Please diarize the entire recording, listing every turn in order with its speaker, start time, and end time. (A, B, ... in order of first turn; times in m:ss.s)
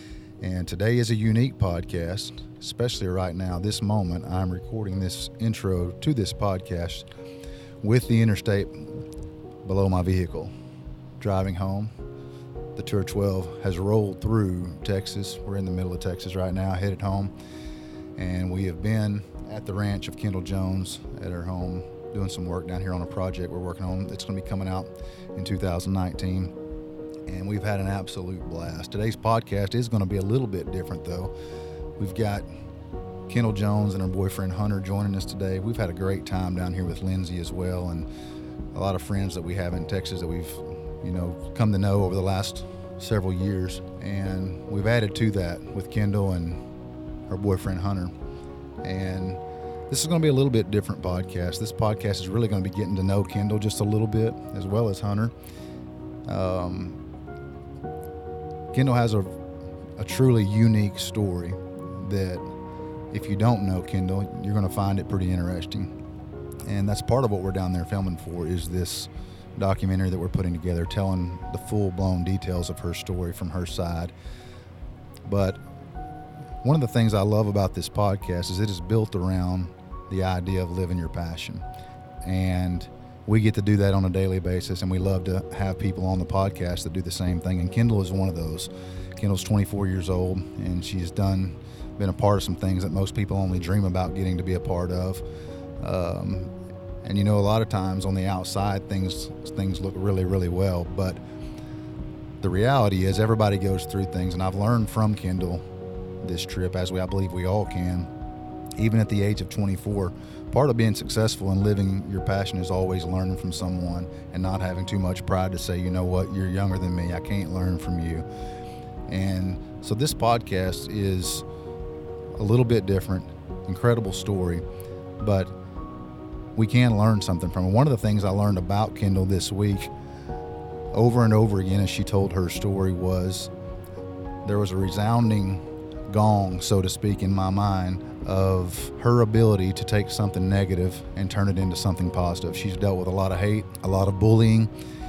0:00.4-0:07.1 A
0:07.8-0:09.0 A
0:09.6-0:10.5 A
0:11.2-0:12.0 A
0:12.8-0:17.3 A
0:18.2-0:26.6 A
0:27.3-0:31.3 A
0:32.0-0:32.5 A
0:33.3-0:38.1 A
0:38.7-0:46.7 A
0:47.3-0:48.1 A
0:48.8-0:55.3 A
0:56.3-0:57.0 A
0:58.7-0:59.4 A
1:00.0-1:02.5 A
1:03.1-1:06.0 A
1:06.6-1:14.1 A
1:15.3-1:15.6 A
1:16.6-1:21.6 A
1:22.2-1:35.2 A
1:35.8-1:41.2 A
1:42.4-1:45.6 A
1:46.2-1:48.1 A
1:48.8-1:58.3 A
1:59.1-2:01.5 A
2:02.4-2:04.6 A
2:05.2-2:05.5 A
2:06.6-2:09.9 A
2:10.9-2:13.5 A
2:14.4-2:24.7 A